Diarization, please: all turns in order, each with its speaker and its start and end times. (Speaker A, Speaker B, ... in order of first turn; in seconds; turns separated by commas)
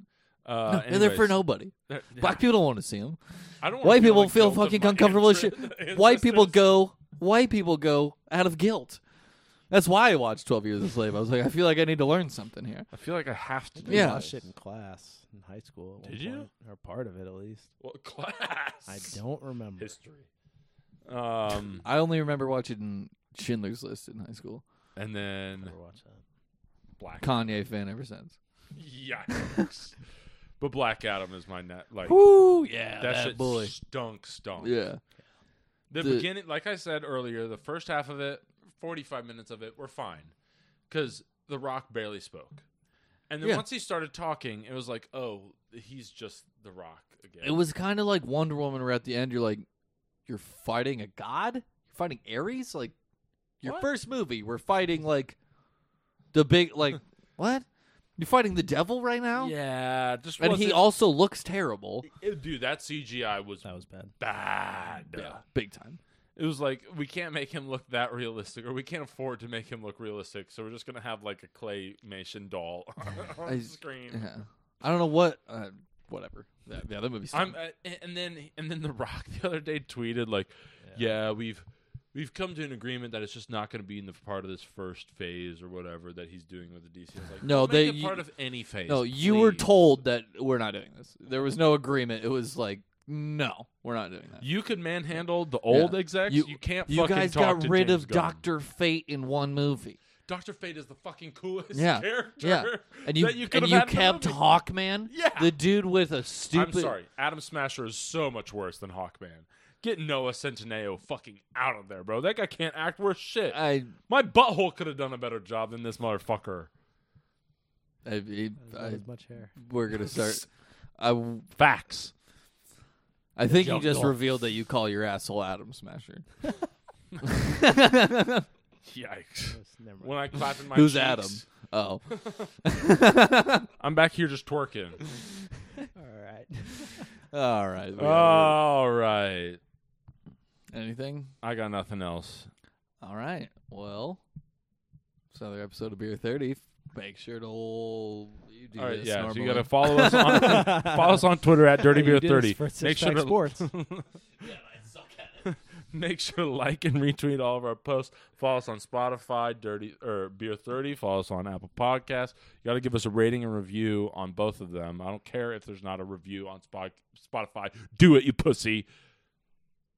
Speaker A: 0.4-2.5, Speaker B: 0.7-3.2, Speaker A: 3.6-6.8, Speaker B: 3.8-9.0, Speaker B: 9.7-12.9, Speaker A: 12.9-14.4, Speaker C: 13.8-17.7, Speaker B: 13.9-14.3, Speaker A: 16.0-16.5, Speaker A: 17.8-19.1, Speaker C: 18.9-19.9, Speaker A: 19.8-20.3, Speaker A: 21.1-21.8, Speaker B: 21.8-24.6, Speaker A: 24.9-25.7, Speaker C: 25.6-26.2, Speaker A: 27.0-27.3, Speaker B: 27.2-28.4, Speaker A: 28.7-30.0, Speaker A: 30.6-32.2, Speaker B: 32.0-33.7, Speaker A: 33.0-34.8, Speaker B: 34.6-35.0, Speaker A: 35.9-40.3, Speaker B: 36.0-36.3, Speaker A: 40.9-42.6, Speaker A: 43.3-47.6, Speaker B: 47.4-49.6, Speaker B: 50.2-52.9, Speaker B: 53.6-55.4, Speaker B: 56.3-57.6, Speaker B: 58.2-59.5, Speaker A: 59.3-60.8, Speaker B: 60.4-62.1, Speaker A: 62.0-63.6, Speaker C: 63.6-64.1, Speaker A: 64.2-65.4, Speaker B: 65.1-66.0, Speaker A: 66.3-74.3, Speaker B: 73.5-77.5, Speaker A: 77.3-89.7, Speaker B: 87.4-88.2, Speaker B: 88.9-94.5, Speaker A: 94.4-98.4, Speaker B: 95.7-100.0, Speaker A: 100.3-104.4, Speaker B: 101.7-106.9, Speaker A: 105.1-105.5, Speaker A: 106.5-116.7, Speaker B: 113.5-113.9, Speaker B: 118.0-119.0, Speaker C: 118.6-119.5, Speaker B: 119.5-120.4, Speaker A: 120.0-120.4, Speaker B: 121.0-121.5, Speaker A: 121.6-122.1, Speaker B: 123.3-126.4, Speaker C: 123.5-124.1, Speaker B: 127.2-128.5, Speaker A: 128.8-131.5, Speaker C: 129.5-130.1, Speaker B: 130.7-132.0, Speaker A: 132.1-132.5, Speaker B: 132.6-133.7, Speaker A: 133.8-135.0, Speaker C: 135.9-137.1, Speaker B: 137.3-138.6, Speaker A: 138.0-139.6, Speaker B: 140.7-141.3, Speaker A: 141.4-142.5, Speaker B: 143.0-144.2, Speaker B: 145.3-150.7, Speaker A: 148.8-154.1, Speaker C: 150.1-151.3, Speaker C: 151.8-153.7, Speaker B: 154.4-155.4, Speaker A: 155.4-168.8